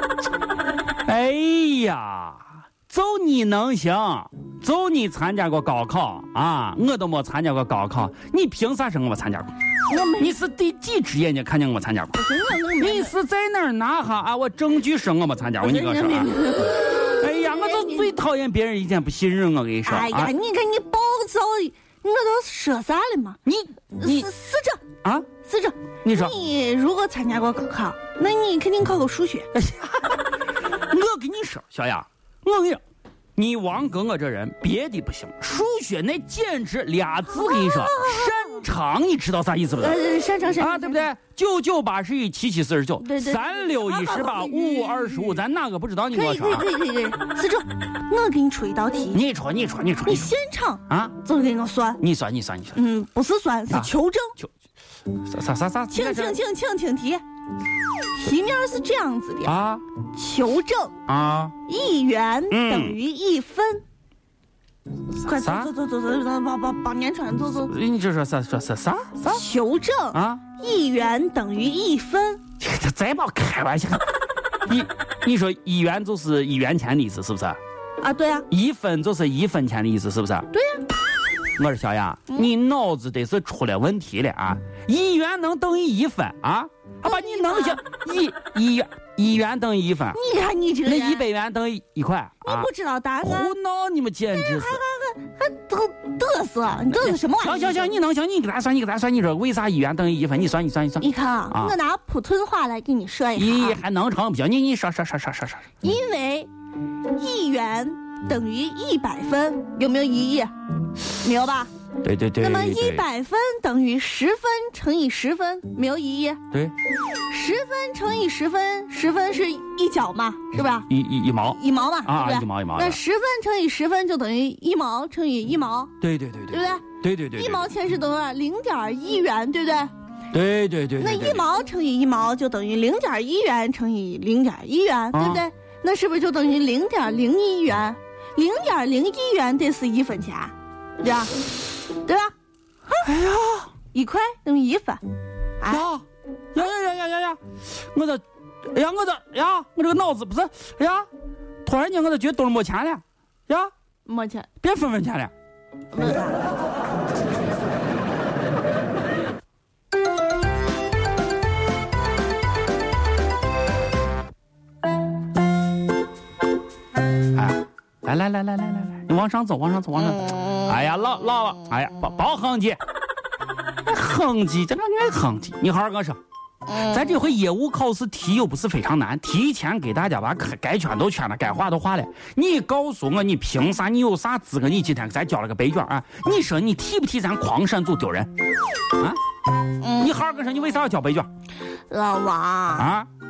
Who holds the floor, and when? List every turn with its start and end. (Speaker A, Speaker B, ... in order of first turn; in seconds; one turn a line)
Speaker A: 1.1-9.5
Speaker B: 9.9-10.4
Speaker A: 10.2-12.2
Speaker B: 12.1-13.1
Speaker A: 12.8-20.3
Speaker B: 15.6-16.9
Speaker B: 17.4-18.1
Speaker B: 19.8-23.4
Speaker A: 23.4-24.3
Speaker B: 24.0-24.8
Speaker A: 25.0-25.3
Speaker B: 25.4-29.5
Speaker A: 26.0-26.3
Speaker A: 29.5-30.2
Speaker A: 30.9-32.8
Speaker A: 33.4-40.0
Speaker B: 37.3-38.6
Speaker B: 39.8-41.1
Speaker A: 40.6-46.7
Speaker B: 43.0-45.3
Speaker B: 46.1-49.2
Speaker A: 49.1-50.3
Speaker B: 50.0-52.0
Speaker A: 50.9-51.1
Speaker A: 52.0-52.8
Speaker B: 52.7-54.3
Speaker A: 53.7-54.5
Speaker A: 55.2-56.4
Speaker B: 55.9-57.2
Speaker B: 58.1-59.5
Speaker A: 59.4-59.8
Speaker B: 60.1-60.9
Speaker A: 61.1-61.5
Speaker B: 61.6-63.8
Speaker A: 62.5-63.0
Speaker B: 65.2-67.7
Speaker A: 65.3-65.7
Speaker A: 67.7-69.5
Speaker B: 69.3-72.4
Speaker A: 70.1-70.4
Speaker A: 72.6-74.1
Speaker A: 74.7-77.6
Speaker B: 78.0-78.5
Speaker A: 78.5-80.5
Speaker B: 80.5-80.8
Speaker A: 81.6-90.2
Speaker B: 87.0-87.8
Speaker B: 90.1-91.3
Speaker A: 90.8-92.7
Speaker B: 92.4-93.5
Speaker A: 93.2-94.8
Speaker B: 94.3-97.9
Speaker A: 96.9-101.7
Speaker B: 101.0-103.8
Speaker A: 103.3-105.7
Speaker B: 105.8-106.5
Speaker B: 107.1-110.5
Speaker B: 111.1-111.7
Speaker A: 112.0-113.0
Speaker B: 112.4-116.4
Speaker B: 117.3-120.9
Speaker A: 120.9-123.0
Speaker B: 121.5-126.0
Speaker A: 126.0-127.7
Speaker B: 126.5-129.9
Speaker A: 130.3-131.4
Speaker B: 131.0-142.3
Speaker A: 135.1-135.4
Speaker A: 143.0-143.7
Speaker B: 143.9-145.0
Speaker B: 145.6-145.9
Speaker A: 145.7-147.4
Speaker A: 147.9-151.1
Speaker A: 151.6-153.7
Speaker B: 154.1-154.5
Speaker A: 154.6-155.3
Speaker B: 155.9-156.4
Speaker A: 167.3-172.8
Speaker B: 170.2-170.6
Speaker A: 173.8-188.3
Speaker B: 176.7-177.0
Speaker B: 189.8-190.1
Speaker A: 190.0-191.3
Speaker B: 191.9-192.9
Speaker A: 192.8-193.1